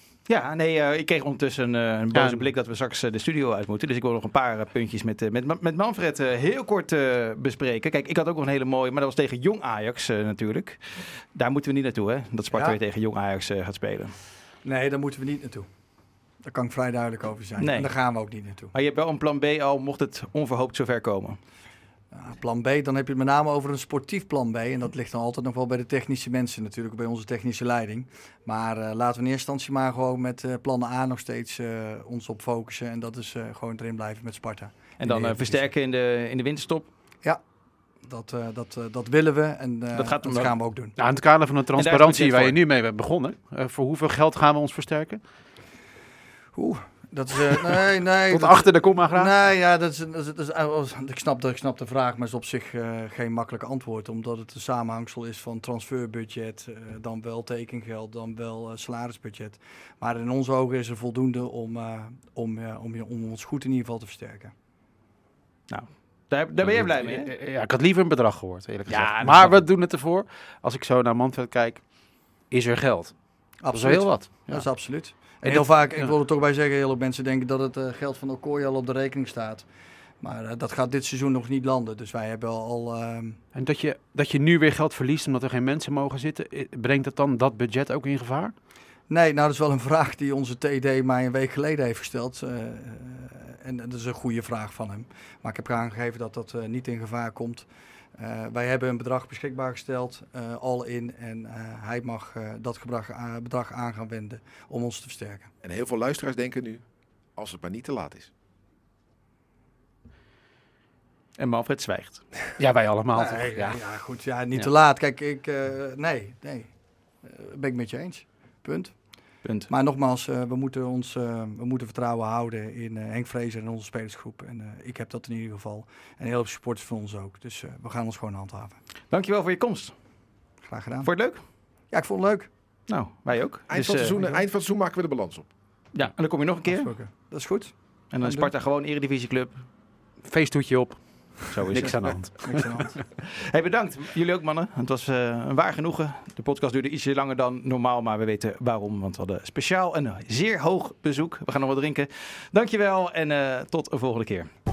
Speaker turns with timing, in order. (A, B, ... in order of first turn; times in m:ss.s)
0:00.3-0:14.1 A
0:02.1-0:02.5 B
0:12.5-0:12.8 C
0:14.6-0:15.7 C
0:16.4-0:18.7 C
0:17.6-0:17.9 A
0:18.7-0:21.4 A
0:22.1-0:35.7 C
0:35.0-0:36.9 A
0:38.0-0:41.0 C
0:39.9-0:40.5 A
0:41.0-0:45.2 B
0:41.8-0:42.6 A
0:46.5-1:04.5 C
0:48.3-0:49.3 B
1:05.7-1:07.3 A
1:06.6-1:11.9 B
1:08.9-1:09.6 A
1:12.5-1:14.8 B
1:13.6-1:19.7 C
1:15.4-1:16.1 B
1:20.2-1:23.4 C
1:23.5-1:28.5 B
1:29.1-1:45.5 C
1:45.6-1:46.8 D
1:47.4-1:48.3 D
1:51.4-1:52.3 A
1:52.6-1:53.8 B
1:53.1-1:59.0 C
1:59.4-1:59.7 A
1:59.7-2:08.8 C
2:09.1-2:09.9 A
2:10.7-2:11.1 C
2:11.0-2:11.4 A
2:11.9-2:12.5 C
2:12.9-2:14.2 A
2:13.7-2:15.5 D
2:14.1-2:14.4 C
2:15.9-2:16.9 A
2:16.6-2:18.5 C
2:18.1-2:19.6 A
2:20.2-2:22.6 B
2:21.5-2:22.2 A
2:22.4-2:22.9 C
2:23.1-2:34.5 A